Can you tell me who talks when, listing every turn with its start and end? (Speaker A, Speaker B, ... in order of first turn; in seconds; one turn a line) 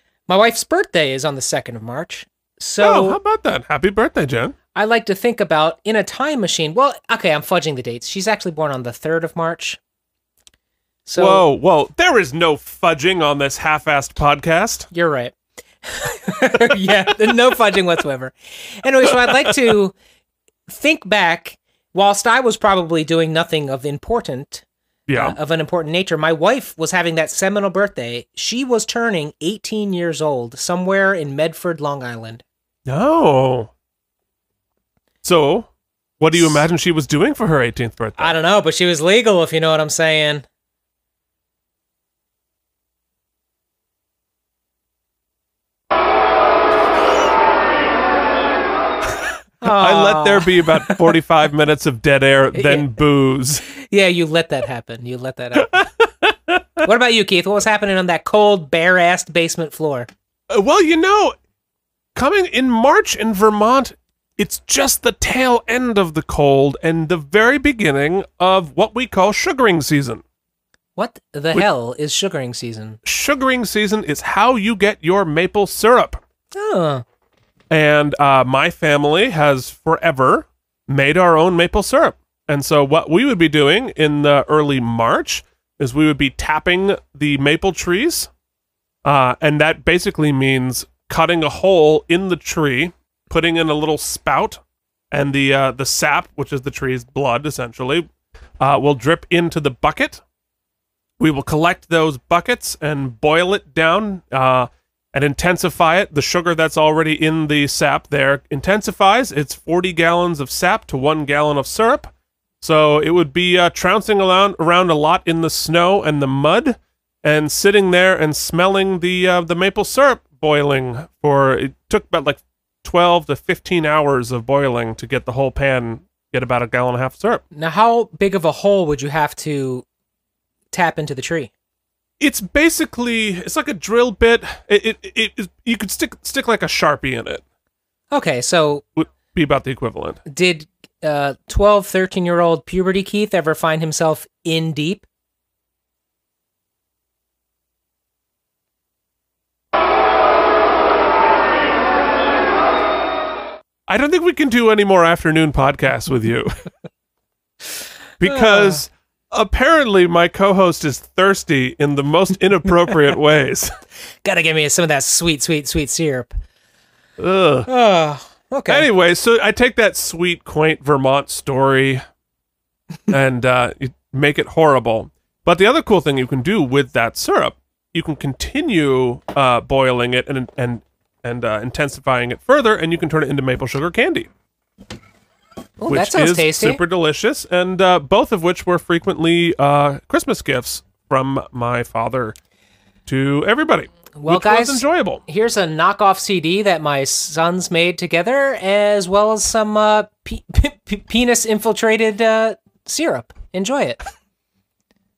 Speaker A: 0.3-3.2
Speaker B: 2.8-4.5
Speaker A: 4.7-9.8
Speaker A: 11.1-11.4
Speaker B: 11.2-14.9
Speaker A: 14.9-15.3
Speaker A: 15.8-19.9
Speaker B: 19.2-19.5
Speaker A: 20.7-32.4
Speaker B: 25.1-25.4
Speaker B: 32.9-33.7
Speaker B: 35.2-35.7
Speaker B: 36.2-38.3
Speaker A: 38.2-40.4
Speaker A: 49.6-51.1
Speaker B: 49.6-53.6
Speaker A: 52.5-52.9
Speaker A: 53.8-55.8
Speaker B: 55.6-56.6
Speaker A: 56.8-60.1
Speaker B: 60.5-61.4
Speaker B: 62.1-70.2
Speaker A: 71.0-73.0
Speaker B: 73.0-76.2
Speaker A: 76.5-77.0
Speaker B: 77.7-88.3
Speaker B: 89.0-94.6
Speaker B: 95.1-98.1
Speaker B: 98.6-100.2
Speaker B: 101.2-112.1
Speaker B: 112.6-127.4
Speaker A: 127.5-129.8
Speaker A: 130.7-131.5
Speaker B: 132.2-137.4
Speaker A: 138.1-138.8
Speaker B: 138.9-140.2
Speaker A: 140.3-145.0
Speaker B: 153.9-156.5
Speaker B: 158.2-163.7
Speaker A: 158.2-158.8
Speaker A: 164.2-166.3
Speaker B: 167.2-167.7
Speaker A: 167.7-168.9
Speaker B: 168.7-172.0
Speaker B: 173.1-184.3
Speaker A: 185.8-186.8
Speaker B: 185.9-192.3
Speaker B: 193.1-195.2
Speaker A: 194.1-204.0